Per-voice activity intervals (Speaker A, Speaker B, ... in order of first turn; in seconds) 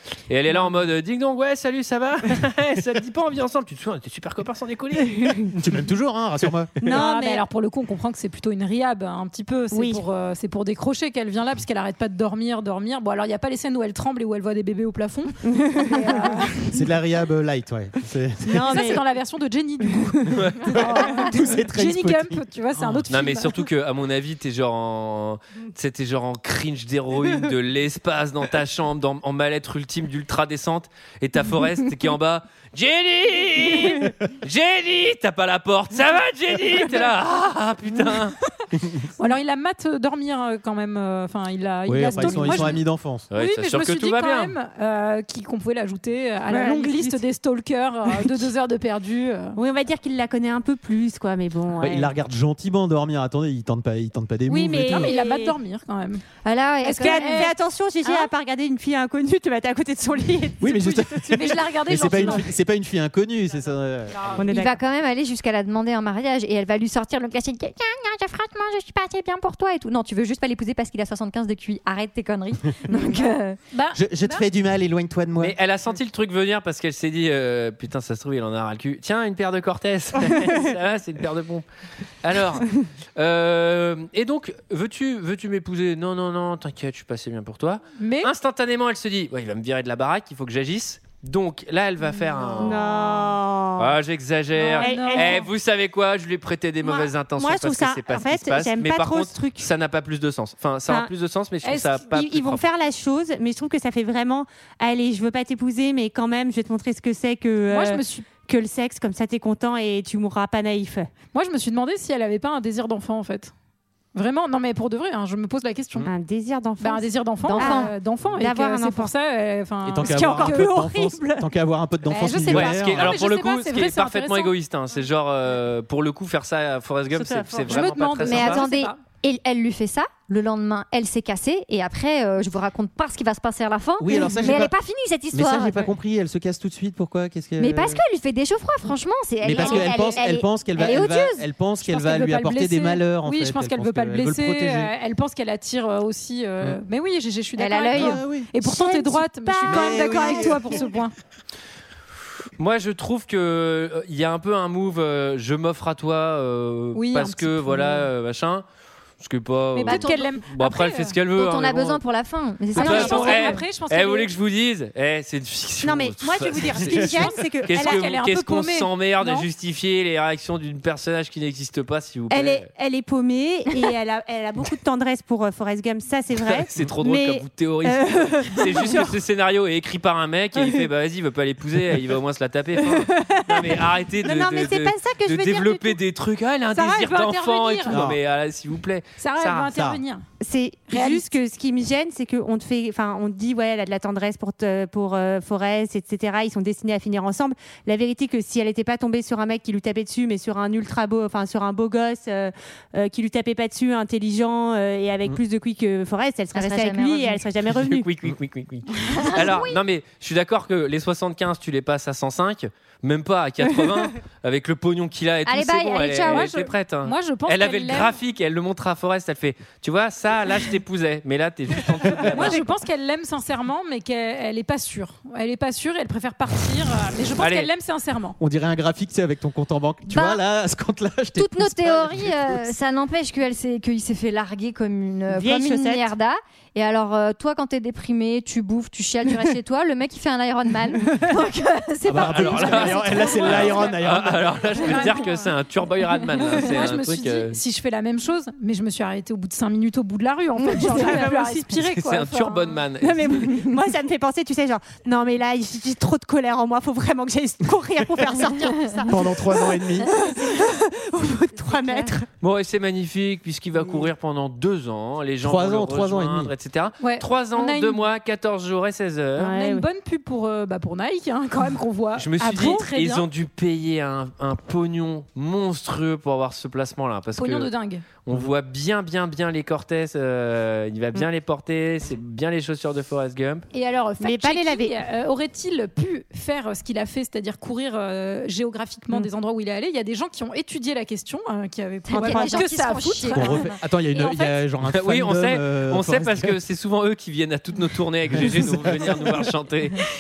Speaker A: 0.3-5.6, 20.3-20.6, 23.1-38.4, 42.4-42.8, 43.3-44.5, 75.4-81.7, 82.2-92.8, 93.8-102.6, 122.5-128.7, 152.6-158.7, 159.2-162.0, 162.7-172.7, 176.4-189.7, 207.7-222.6, 227.4-227.7, 242.2-247.6, 251.8-253.6, 262.4-269.6, 272.2-277.7, 278.2-283.7, 294.9-300.0
Speaker B: 5.5-6.8, 16.7-18.8, 20.7-23.1, 41.9-43.3, 51.8-55.1, 60.6-64.4, 73.9-75.5, 119.8-123.2, 134.0-134.7, 135.3-138.0, 139.4-144.9, 147.9-148.5, 149.7-150.8, 187.9-188.2, 189.7-190.0, 228.4-232.7, 242.1-244.7, 259.1-260.1, 265.4-266.5, 293.3-296.6, 298.3-299.3
Speaker C: 6.8-7.5, 9.7-10.0, 15.5-16.5, 18.4-19.1, 46.5-47.3, 48.1-48.4, 49.6-52.1, 54.5-55.6, 56.9-62.4, 64.4-64.8, 92.6-94.0, 94.8-95.4, 96.8-99.7, 102.0-111.1, 116.0-119.1, 120.0-121.5, 127.1-128.0, 148.6-150.9, 165.8-168.2, 172.3-179.1, 182.9-186.0, 190.4-208.1, 235.3-236.1, 250.7-251.8, 253.0-262.3, 269.4-269.9, 284.2-285.0, 292.1-292.8
Speaker D: 6.9-16.7, 18.6-23.6, 39.2-49.6, 54.5-56.2, 56.8-57.6, 60.9-62.5, 73.7-74.4, 88.0-88.3, 94.6-95.5, 101.7-102.0, 107.7-108.3, 111.3-113.5, 114.2-116.1, 116.8-120.8, 122.1-124.5, 127.7-129.0, 139.6-140.1, 141.8-151.1, 156.9-158.1, 159.8-161.2, 162.7-164.3, 167.7-169.5, 186.7-188.0, 189.2-190.2, 190.9-191.3, 216.3-218.2, 222.3-228.4, 244.8-245.5, 246.3-252.8, 267.0-268.1, 269.5-273.3, 277.4-278.0, 283.7-294.6
Speaker E: 56.5-57.5, 64.5-73.6, 117.4-117.9, 128.2-135.9, 137.6-141.5, 147.6-148.2, 159.9-160.2, 161.3-163.6, 206.5-207.4, 209.2-209.8, 215.5-216.5, 230.1-230.4, 231.4-243.7, 250.7-251.2, 261.6-262.2, 292.1-293.8